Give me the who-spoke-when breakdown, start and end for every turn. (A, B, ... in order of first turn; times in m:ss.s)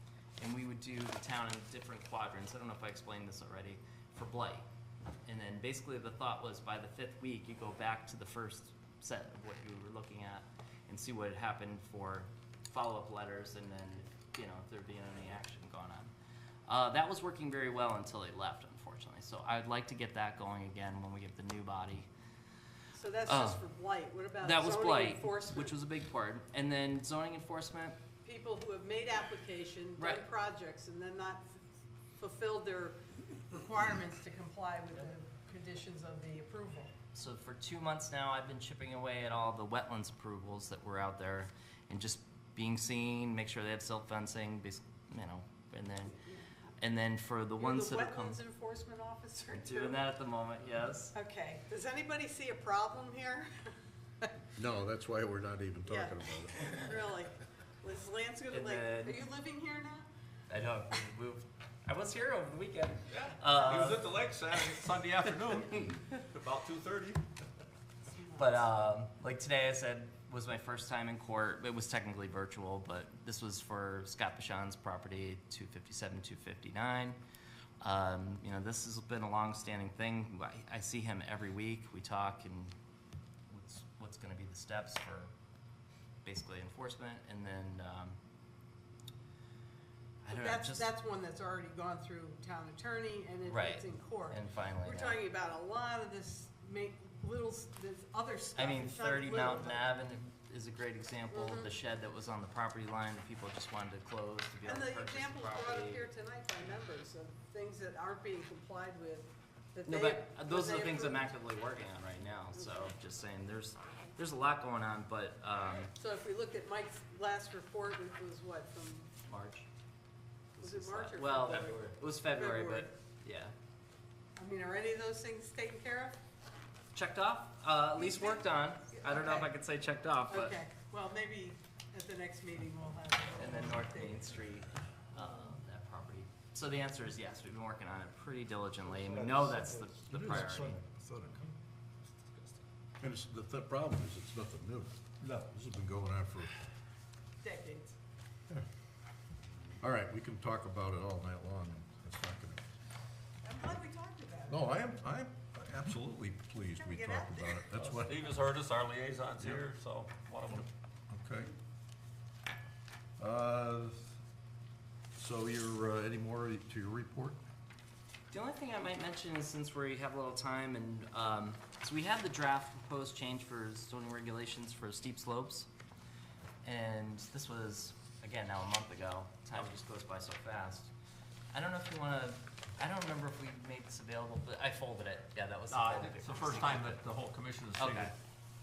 0:00.4-0:04.6 A
0:05.2-0:16.1 A
0:16.7-0:22.1 A
0:22.9-0:25.7 B
0:23.2-0:23.6 A
0:24.4-0:28.0 A
0:28.2-0:31.5 B
0:30.0-0:30.2 A
0:32.2-0:33.0 B
0:33.5-0:36.9 B
0:37.1-0:48.4 A
0:47.6-0:50.0 B
0:49.5-0:51.1 A
0:51.1-0:53.5 B
0:54.6-0:56.8 C
0:55.9-1:00.1 B
0:58.5-0:59.2 A
1:00.5-1:04.0 A
1:03.1-1:07.2 D
1:08.0-1:08.6 B
1:08.4-1:17.2 A
1:17.8-1:22.7 A
1:23.5-1:25.3 A
1:26.2-1:28.2 A
1:30.2-1:30.9 A
1:30.3-1:39.8 B
1:33.4-1:35.2 A
1:38.5-1:46.1 A
1:41.3-1:41.7 B
1:44.6-1:51.3 B
1:49.8-1:55.9 A
1:52.6-1:52.9 B
1:55.9-1:59.1 B
1:59.2-1:59.7 A
2:00.6-2:03.5 A
2:00.6-2:02.9 B
2:04.4-2:06.2 B
2:06.9-2:10.6 A
2:08.0-2:09.5 B
2:10.3-2:14.3 B
2:13.4-2:20.8 A
2:19.2-2:19.6 D
2:20.0-2:21.4 C
2:22.1-2:22.6 D
2:23.0-2:26.5 C
2:27.4-2:28.0 B
2:29.8-2:32.7 C
2:33.4-2:34.7 B
2:34.5-2:38.1 C
2:36.7-2:37.6 B
2:37.8-2:40.7 D
2:40.5-2:41.5 C
2:43.2-2:44.1 C
2:45.2-2:47.4 C
2:48.3-2:55.7 A
2:56.6-3:00.9 A
3:01.5-3:07.0 A
3:05.7-3:08.1 D
3:07.8-3:08.1 A